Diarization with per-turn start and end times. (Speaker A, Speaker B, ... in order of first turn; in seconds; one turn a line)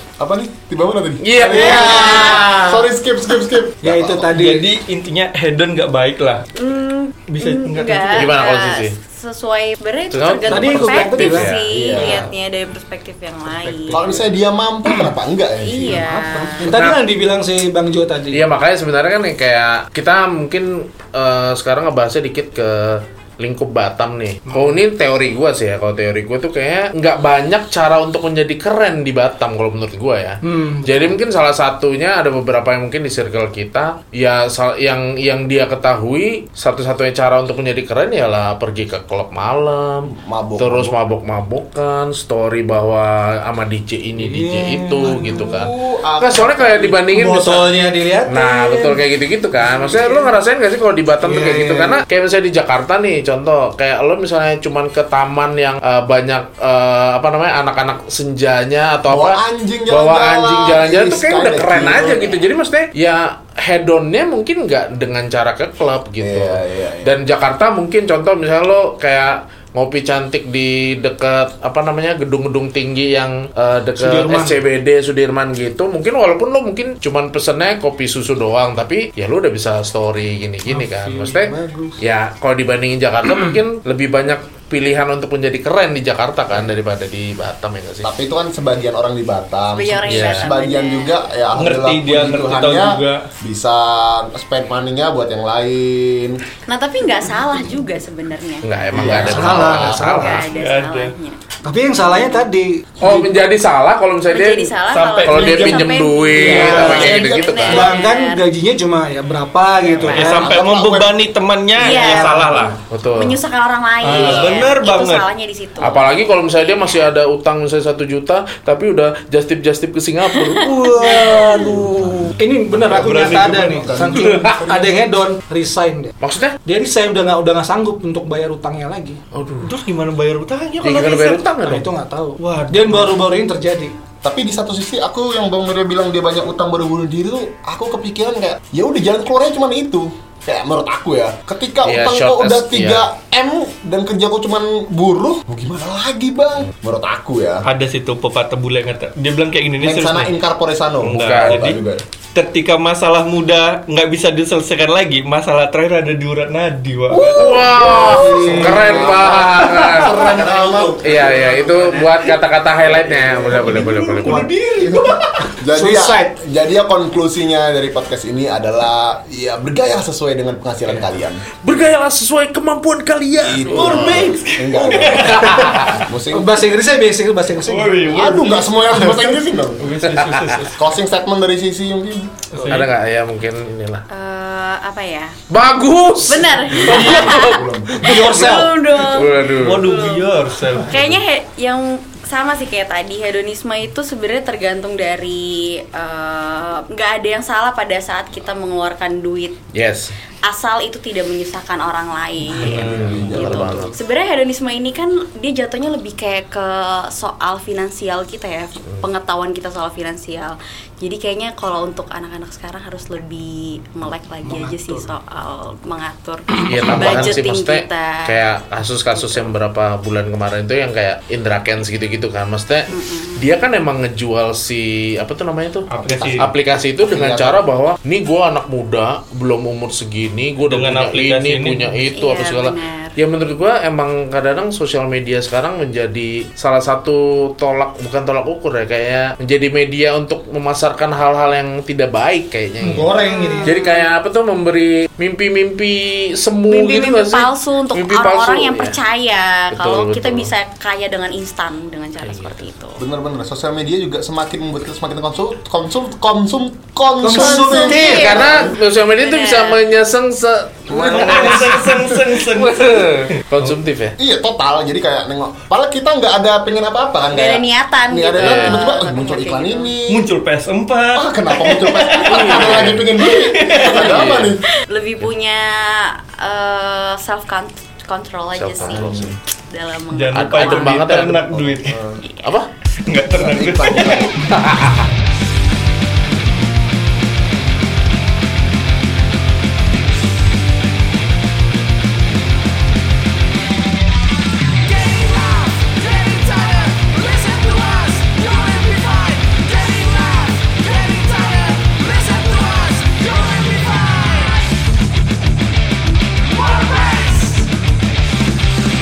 Speaker A: 0.2-4.3
Speaker B: 1.2-2.9
Speaker C: 1.6-2.5
Speaker D: 1.9-2.2
Speaker D: 3.8-4.7
Speaker E: 4.3-6.5
Speaker C: 6.5-14.0
Speaker E: 7.3-8.3
Speaker B: 8.1-8.9
Speaker B: 10.1-11.7
Speaker D: 10.5-12.3
Speaker A: 11.7-12.3
Speaker D: 13.4-14.3
Speaker A: 13.9-16.1
Speaker C: 15.6-16.7
Speaker D: 15.8-18.4
Speaker B: 18.3-47.7
Speaker D: 24.4-24.8
Speaker D: 30.4-31.1
Speaker A: 40.0-40.9
Speaker D: 44.1-45.5
Speaker A: 45.0-47.0
Speaker D: 47.1-49.0
Speaker B: 48.3-88.1
Speaker D: 49.6-50.4
Speaker D: 51.2-52.0
Speaker A: 59.1-62.4
Speaker A: 66.2-67.1
Speaker D: 74.0-74.6
Speaker D: 80.7-82.0
Speaker A: 88.0-96.4
Speaker C: 89.7-91.3
Speaker B: 90.0-90.5
Speaker E: 91.5-93.3
Speaker C: 96.7-101.4
Speaker B: 98.6-100.5
Speaker A: 98.9-100.3
Speaker D: 99.2-100.4
Speaker E: 100.5-101.1
Speaker D: 101.6-103.3
Speaker C: 102.0-102.4
Speaker B: 103.0-107.9
Speaker C: 104.3-108.4
Speaker E: 104.9-105.9
Speaker D: 106.3-107.1
Speaker A: 106.5-107.9
Speaker D: 107.7-110.4
Speaker C: 109.9-110.5
Speaker E: 110.0-112.8
Speaker A: 110.1-111.1
Speaker C: 111.7-117.1
Speaker D: 111.8-112.5
Speaker B: 112.9-113.4
Speaker E: 114.0-115.2
Speaker B: 114.0-114.6
Speaker B: 115.8-122.3
Speaker C: 120.3-121.9
Speaker D: 122.4-126.1
Speaker E: 122.8-124.0
Speaker A: 123.0-124.9
Speaker B: 124.0-124.8
Speaker B: 126.2-126.5
Speaker D: 126.6-129.2
Speaker B: 129.3-129.7
Speaker E: 129.6-131.4
Speaker B: 130.8-131.9
Speaker D: 131.6-133.9
Speaker E: 132.4-133.2
Speaker A: 134.2-147.6
Speaker B: 141.8-143.1
Speaker E: 147.6-150.3
Speaker A: 149.8-152.0
Speaker E: 151.0-151.8
Speaker B: 151.1-151.6
Speaker E: 152.3-157.6
Speaker A: 157.1-161.3
Speaker B: 157.3-160.4
Speaker D: 158.0-162.0
Speaker B: 161.0-164.5
Speaker A: 162.8-164.1
Speaker E: 163.7-164.4
Speaker D: 164.2-166.3
Speaker A: 164.8-171.4
Speaker B: 171.6-174.3
Speaker A: 173.4-176.5
Speaker E: 173.7-175.9
Speaker B: 174.9-176.0
Speaker D: 176.3-178.5
Speaker E: 177.6-179.2
Speaker A: 178.1-179.8
Speaker E: 179.8-180.8
Speaker B: 180.0-180.6
Speaker A: 180.8-182.5
Speaker D: 182.5-182.8
Speaker E: 182.5-182.9
Speaker B: 182.7-184.0
Speaker C: 184.1-185.3
Speaker B: 185.5-188.3
Speaker C: 186.2-199.6
Speaker A: 186.7-188.0
Speaker D: 186.8-187.3
Speaker D: 187.9-188.8
Speaker B: 189.0-189.8
Speaker E: 189.6-191.2
Speaker B: 199.7-200.1
Speaker C: 200.4-218.4
Speaker B: 202.6-203.9
Speaker A: 202.6-203.9
Speaker E: 202.8-203.2
Speaker D: 214.4-215.1
Speaker B: 216.6-225.9
Speaker C: 219.1-219.5
Speaker C: 222.9-223.5
Speaker E: 225.9-226.5
Speaker A: 226.0-227.6
Speaker B: 226.4-243.1
Speaker E: 230.6-232.1
Speaker C: 232.2-233.1
Speaker D: 242.8-243.8
Speaker C: 243.2-244.1
Speaker B: 243.6-249.0
Speaker C: 246.7-253.0
Speaker B: 249.7-250.5
Speaker B: 252.2-252.6
Speaker A: 253.0-258.7
Speaker D: 257.2-258.3
Speaker C: 257.6-259.8
Speaker B: 257.8-264.1
Speaker A: 260.9-262.2
Speaker E: 261.0-263.7
Speaker A: 264.2-270.3
Speaker C: 267.3-269.9
Speaker B: 268.4-268.8
Speaker E: 270.1-272.6
Speaker A: 271.1-274.6
Speaker B: 272.2-273.1
Speaker E: 273.2-273.9
Speaker C: 273.6-274.1
Speaker B: 273.8-274.6
Speaker C: 274.9-279.1
Speaker B: 278.5-279.3
Speaker A: 278.8-279.4
Speaker C: 279.7-281.0
Speaker E: 280.1-282.0
Speaker B: 280.3-281.6
Speaker A: 281.6-282.2
Speaker C: 282.2-282.5
Speaker B: 282.4-282.7
Speaker E: 283.1-284.3
Speaker A: 283.3-284.4
Speaker B: 284.5-285.1
Speaker D: 295.0-304.5
Speaker D: 306.7-307.6